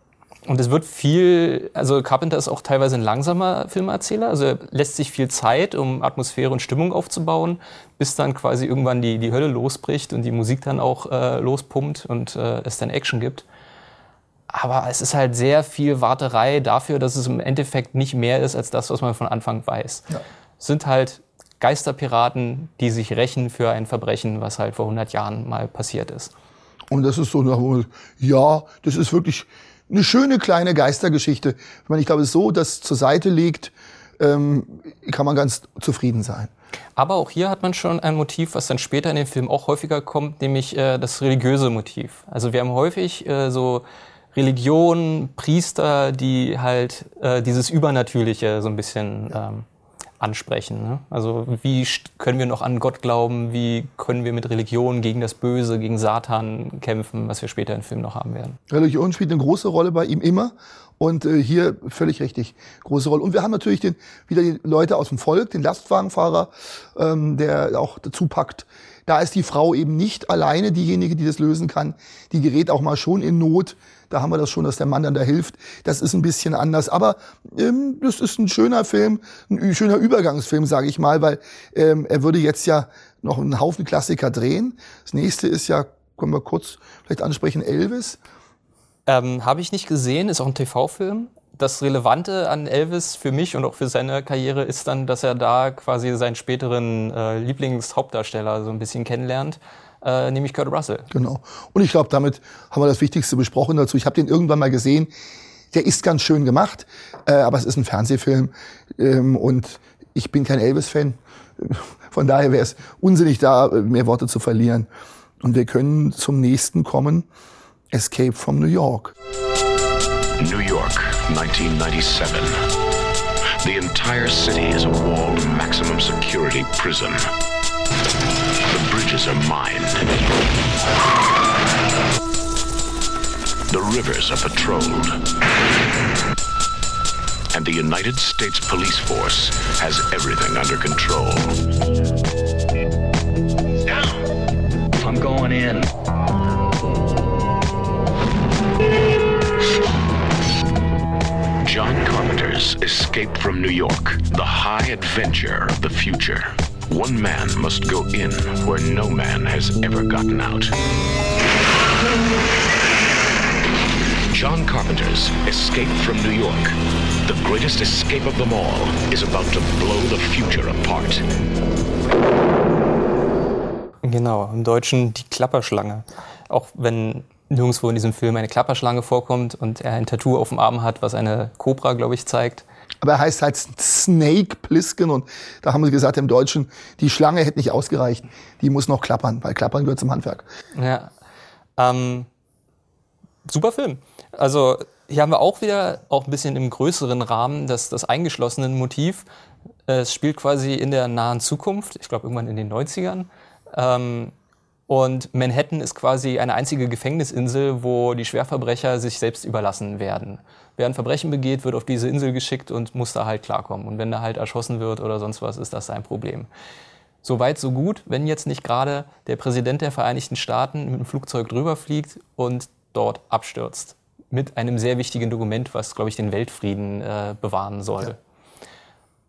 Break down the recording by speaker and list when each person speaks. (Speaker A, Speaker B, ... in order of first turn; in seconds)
Speaker A: 0.5-13.4, 14.5-20.0, 20.6-26.3, 37.0-49.6, 50.2-58.6, 89.1-101.1, 174.0-182.6, 190.7-191.1, 191.8-192.3, 193.4-199.2, 199.9-204.3, 204.9-216.5, 217.2-228.2
Speaker B: 26.9-36.5, 58.7-88.2, 101.1-105.1, 105.7-114.9, 115.4-117.3, 117.9-119.1, 183.0-190.5
Speaker C: 120.4-122.6, 123.6-127.3, 128.7-130.2, 133.7-135.2, 137.5-141.5, 145.0-145.8, 151.6-160.7, 164.3-171.2